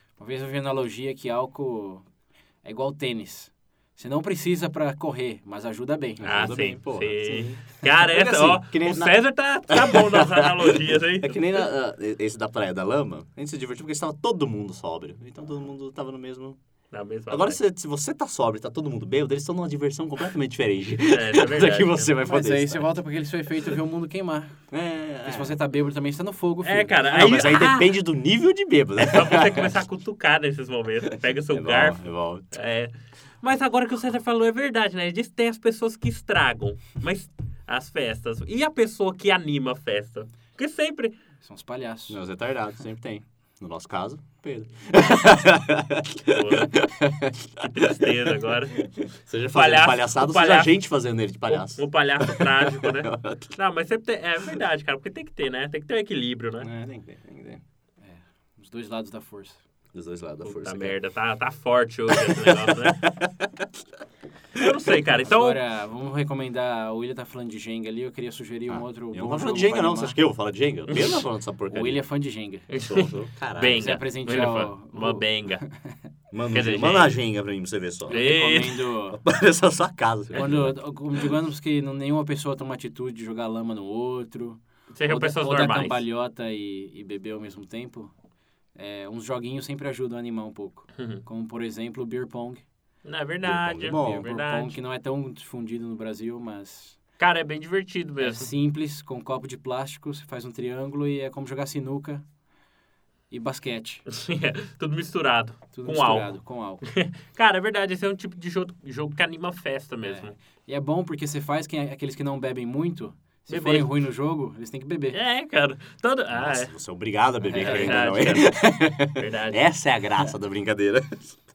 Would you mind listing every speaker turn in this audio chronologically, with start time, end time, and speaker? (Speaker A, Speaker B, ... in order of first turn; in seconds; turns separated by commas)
Speaker A: 0.2-2.0, Speaker A: 2.6-6.3, Speaker B: 6.2-9.2, Speaker C: 6.2-11.6, Speaker B: 9.7-16.6, Speaker C: 16.9-17.6, Speaker B: 17.3-22.9, Speaker C: 21.0-22.1, Speaker A: 22.2-24.6, Speaker B: 24.7-25.6, Speaker A: 25.2-27.0, Speaker C: 26.6-27.9, Speaker B: 27.1-29.8, Speaker C: 29.0-32.0, Speaker B: 31.5-32.5, Speaker C: 32.5-41.1, Speaker A: 41.4-42.2, Speaker B: 42.1-53.5, Speaker C: 46.3-46.8, Speaker C: 47.5-48.9, Speaker C: 49.5-50.7, Speaker C: 51.5-56.7, Speaker B: 56.6-57.6, Speaker A: 58.0-59.6, Speaker B: 59.9-61.0, Speaker C: 60.4-63.0, Speaker B: 62.1-63.7, Speaker C: 64.5-65.6, Speaker A: 65.2-70.2, Speaker B: 68.7-72.0, Speaker C: 70.9-71.2, Speaker A: 71.7-72.7, Speaker C: 72.7-75.6, Speaker B: 72.8-73.9, Speaker A: 73.8-75.9, Speaker B: 76.3-78.2, Speaker C: 76.5-77.2, Speaker A: 78.1-79.2, Speaker C: 78.1-78.9, Speaker B: 79.1-80.8, Speaker A: 80.3-88.1, Speaker C: 84.9-86.0, Speaker A: 88.8-92.6, Speaker C: 91.0-91.2, Speaker C: 93.0-94.8, Speaker B: 93.4-94.3, Speaker A: 94.0-97.0, Speaker C: 97.2-98.5, Speaker A: 98.2-102.2, Speaker A: 103.3-104.0, Speaker C: 104.1-110.3, Speaker A: 105.7-106.8, Speaker A: 110.0-115.2, Speaker C: 113.5-113.9, Speaker C: 115.1-116.7, Speaker B: 116.3-121.4, Speaker A: 117.4-118.2, Speaker C: 117.5-118.6, Speaker C: 119.1-119.7